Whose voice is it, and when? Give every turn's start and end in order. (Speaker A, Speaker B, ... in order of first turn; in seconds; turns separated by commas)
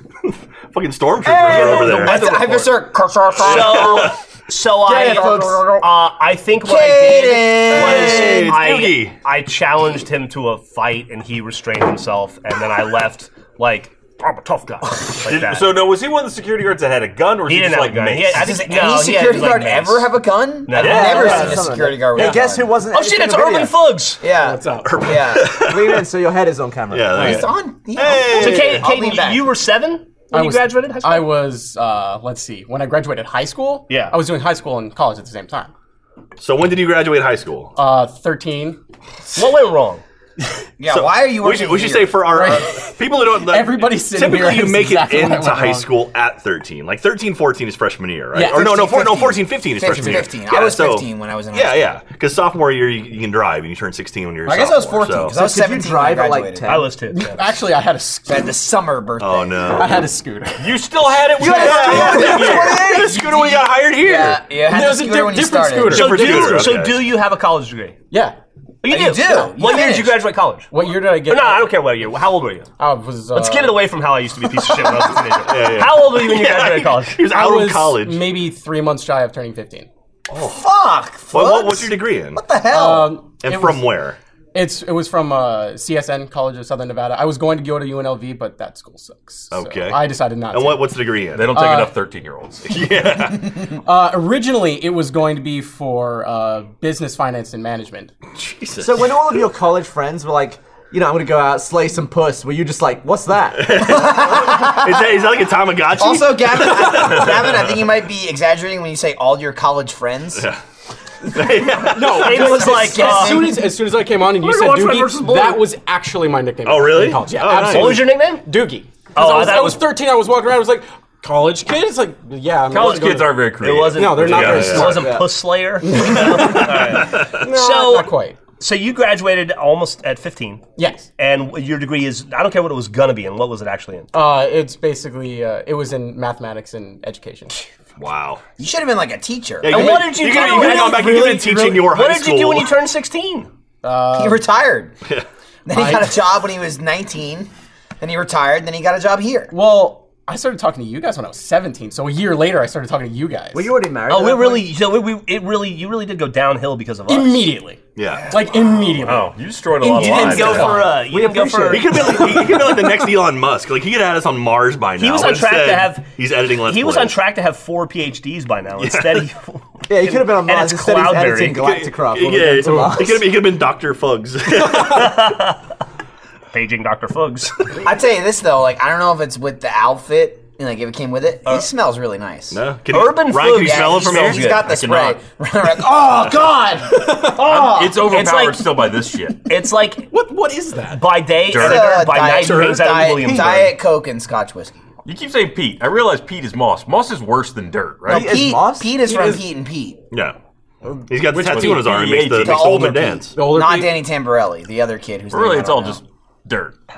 Speaker A: 0.7-2.2, Speaker B: 1.2-4.2, Speaker C: 1.3-2.8, Speaker C: 3.4-15.8, Speaker A: 3.4-4.2, Speaker B: 4.9-5.9, Speaker B: 6.6-8.6, Speaker A: 7.7-9.2, Speaker D: 15.2-18.5, Speaker C: 17.5-21.7, Speaker B: 18.4-22.8, Speaker E: 20.7-23.8, Speaker A: 21.2-21.6, Speaker C: 22.9-24.2, Speaker B: 24.2-25.6, Speaker F: 24.3-25.0, Speaker A: 24.8-26.1, Speaker E: 25.6-27.5, Speaker A: 26.9-28.9, Speaker B: 27.1-29.5, Speaker C: 28.3-31.4, Speaker F: 30.3-35.7, Speaker C: 33.9-34.2, Speaker A: 36.4-37.7, Speaker F: 37.8-38.8, Speaker C: 39.4-40.0, Speaker B: 40.8-42.5, Speaker A: 40.9-55.4, Speaker F: 42.3-45.9, Speaker F: 48.3-48.8, Speaker B: 48.4-52.0, Speaker F: 49.9-50.2, Speaker B: 54.5-56.7, Speaker E: 55.3-57.0, Speaker C: 56.7-57.4, Speaker F: 57.1-58.6, Speaker B: 58.3-59.9, Speaker A: 59.2-60.1, Speaker F: 59.8-60.8, Speaker D: 60.6-62.9, Speaker F: 61.4-62.7, Speaker B: 61.4-63.2, Speaker A: 61.4-64.4, Speaker E: 61.5-63.2, Speaker B: 64.0-66.1, Speaker F: 64.5-66.7, Speaker C: 65.9-68.0, Speaker A: 65.9-67.1, Speaker F: 68.1-68.4, Speaker C: 68.8-72.7, Speaker B: 68.9-70.2, Speaker F: 70.7-71.7, Speaker F: 72.8-73.8, Speaker C: 73.3-77.2, Speaker A: 75.4-78.4, Speaker F: 77.2-79.9, Speaker A: 80.3-80.7, Speaker B: 80.5-83.2, Speaker A: 81.3-82.4, Speaker F: 82.7-83.9, Speaker A: 83.4-84.2, Speaker F: 84.5-92.0, Speaker A: 89.5-91.6, Speaker D: 91.3-92.7, Speaker A: 92.7-93.7, Speaker F: 93.7-98.1, Speaker A: 98.3-99.5, Speaker E: 98.8-103.9, Speaker A: 103.6-107.8, Speaker B: 103.8-104.9, Speaker B: 106.0-110.5, Speaker A: 110.3-110.6, Speaker A: 111.2-112.6, Speaker F: 111.9-125.3, Speaker C: 112.1-113.6, Speaker B: 112.2-113.6, Speaker C: 114.3-115.7, Speaker A: 116.7-118.1, Speaker C: 117.6-118.5, Speaker C: 119.2-119.9, Speaker D: 122.7-125.0, Speaker C: 122.7-134.1, Speaker A: 124.2-125.1, Speaker E: 124.8-125.3, Speaker F: 125.8-128.4, Speaker A: 126.2-127.4, Speaker F: 130.8-131.1, Speaker F: 134.1-137.6, Speaker A: 138.0-138.4, Speaker B: 138.6-140.0, Speaker A: 139.6-142.8, Speaker C: 139.7-143.5, Speaker F: 140.3-141.6, Speaker F: 143.8-144.5, Speaker B: 144.1-144.9, Speaker B: 145.7-147.5, Speaker F: 145.7-146.2, Speaker B: 148.0-149.5, Speaker F: 149.5-153.7, Speaker E: 153.5-154.6, Speaker C: 154.1-157.6, Speaker F: 157.1-157.8, Speaker A: 158.0-158.8, Speaker F: 158.3-160.9, Speaker D: 159.0-160.8, Speaker C: 159.8-162.0, Speaker E: 160.4-163.0, Speaker A: 161.7-167.2, Speaker C: 165.0-171.7, Speaker A: 168.8-169.3, Speaker E: 169.9-173.3, Speaker A: 171.5-175.3, Speaker C: 174.8-175.6, Speaker C: 176.5-177.6, Speaker B: 177.8-182.6, Speaker A: 182.5-184.6, Speaker C: 182.9-184.7, Speaker B: 183.5-188.0, Speaker D: 184.6-185.2, Speaker F: 187.1-187.7, Speaker D: 187.2-189.5, Speaker C: 188.0-188.8, Speaker C: 189.4-190.1, Speaker D: 190.1-190.9, Speaker F: 190.3-191.0, Speaker C: 190.9-193.8, Speaker D: 191.5-192.7, Speaker B: 191.5-194.8, Speaker E: 193.3-193.5, Speaker D: 195.1-198.3, Speaker E: 198.1-198.9, Speaker B: 198.1-200.0, Speaker F: 199.0-199.4, Speaker A: 200.1-200.4, Speaker A: 201.1-203.3, Speaker D: 201.3-202.8, Speaker F: 201.3-202.0, Speaker B: 202.4-206.0, Speaker F: 203.3-204.0, Speaker D: 205.3-206.8